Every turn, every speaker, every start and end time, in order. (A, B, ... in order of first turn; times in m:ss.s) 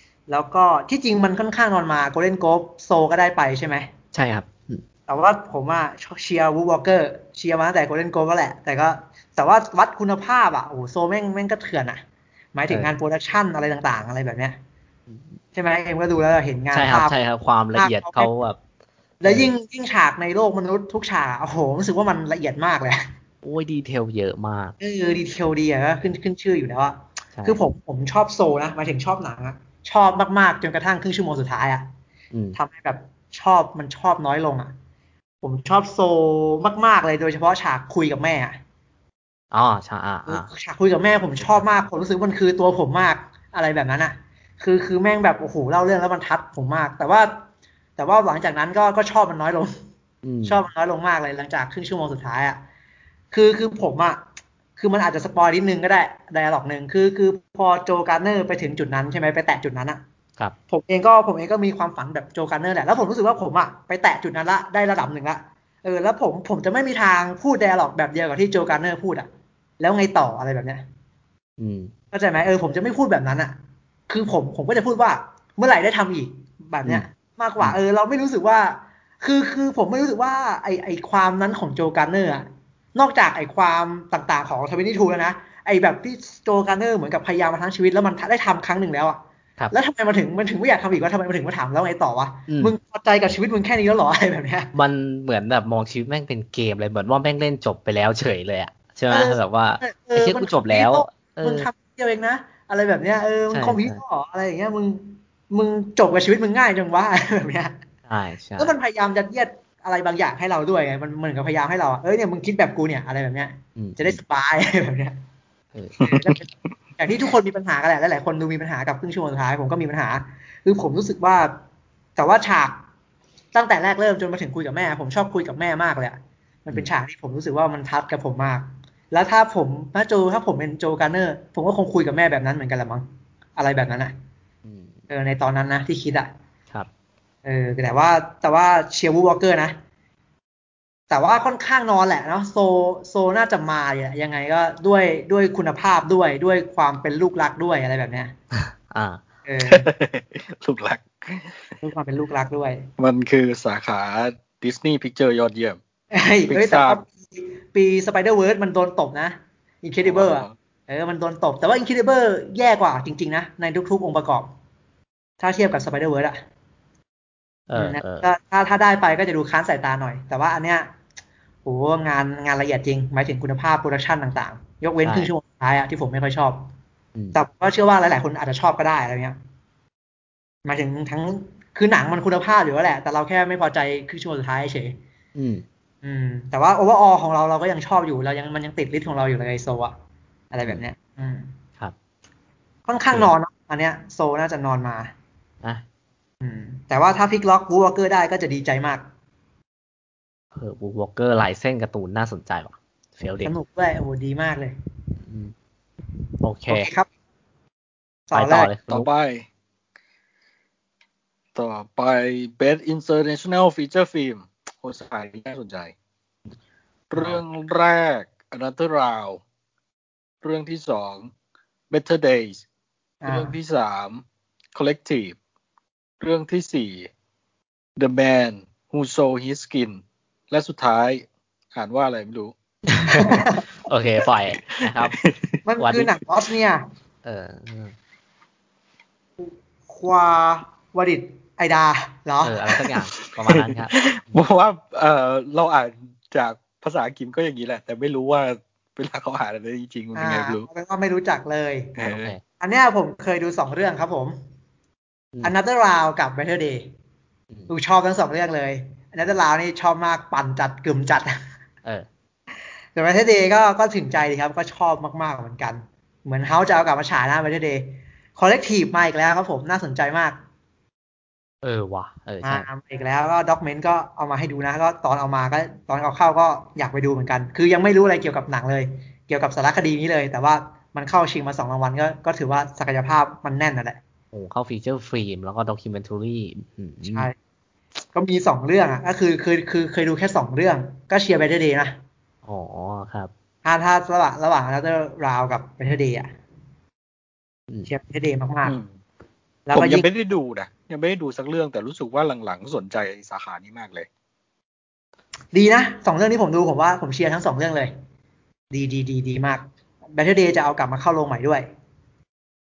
0:00.3-0:03.9 A
0:04.1-0:04.8 B
0:05.1-0:12.0 A
0:12.5-0:14.6 A
0:15.1-0:15.4 B
0:15.5-0:17.1 A
0:16.7-0:18.6 B
0:17.7-0:18.3 A
0:19.2-0:23.1 A
0:19.2-0:19.5 B
0:23.4-0:24.8 B
0:24.8-0:31.9 A
0:32.3-0:32.6 B
0:32.6-0:34.7 A
0:35.4-0:38.6 A
0:39.5-0:40.5 B
0:40.3-0:47.4 A
0:48.0-0:49.7 A
0:50.2-0:50.6 B
0:50.4-0:52.6 A
0:53.3-0:54.2 A
0:54.8-1:00.0 A
1:00.7-1:09.3 A
1:09.8-1:10.8 A
1:11.6-1:11.9 B
1:12.1-1:13.6 A
1:14.1-1:29.2 A
1:29.7-1:34.7 A
1:32.5-1:32.7 B
1:34.7-1:41.7 B
1:39.1-1:47.7 A
1:43.5-1:44.0 B
1:48.1-1:48.7 B
1:48.6-1:55.2 A
1:53.8-1:54.2 B
1:55.7-1:56.0 B
1:56.0-1:56.3 C
1:56.0-1:56.5 A
1:57.0-2:01.6 A
2:02.2-2:02.8 A
2:03.5-2:14.1 A
2:14.6-2:15.0 B
2:15.1-2:16.3 A
2:17.4-2:19.8 A
2:21.1-2:28.3 A
2:28.9-2:29.2 B
2:29.4-2:29.9 A
2:29.6-2:31.7 C
2:31.8-2:32.9 A
2:33.0-2:35.8 C
2:36.1-2:44.5 A
2:36.5-2:37.0 C
2:40.0-2:40.5 C
2:45.4-2:46.4 A
2:47.7-2:48.3 B
2:47.7-2:50.9 A
2:51.6-2:56.7 A
2:55.0-2:55.3 B
2:57.1-2:57.4 B
2:57.3-2:59.4 A
3:00.7-3:05.0 A
3:05.4-3:05.6 B
3:06.0-3:10.0 A
3:10.5-3:11.5 A
3:12.9-3:15.1 A
3:16.4-3:19.0 A
3:20.6-3:23.5 B
3:23.4-3:24.8 A
3:25.2-3:25.5 B
3:26.4-3:26.9 B
3:26.7-3:27.1 A
3:28.3-3:28.7 A
3:28.3-3:29.1 B
3:28.9-3:29.4 C
3:31.6-3:35.9 C
3:37.1-3:39.4 C
3:40.4-3:41.3 C
3:41.9-3:42.6 C
3:43.2-3:43.5 A
3:43.3-3:44.2 C
3:44.7-3:45.4 C
3:46.2-3:47.1 C
3:48.0-3:52.5 C
3:52.9-3:55.2 B
3:53.1-3:53.6 A
3:55.1-3:55.6 C
3:55.6-3:56.8 A
3:55.8-3:56.2 B
3:57.2-3:58.0 B
3:59.4-4:03.0 A
4:02.4-4:04.4 B
4:03.5-4:10.7 C
4:10.1-4:12.0 A
4:12.0-4:12.4 C
4:12.0-4:12.4 B
4:12.6-4:14.4 A
4:15.4-4:16.9 A
4:17.7-4:21.4 A
4:23.0-4:30.4 A
4:31.6-4:32.7 B
4:32.4-4:44.0 A
4:44.3-4:47.3 B
4:47.0-4:47.4 A
4:48.1-4:52.0 A
4:52.4-4:53.3 B
4:53.6-4:56.3 A
4:57.9-4:58.8 A
4:59.7-5:00.1 A
4:59.7-5:04.1 C
5:05.5-5:07.9 A
5:08.7-5:11.7 A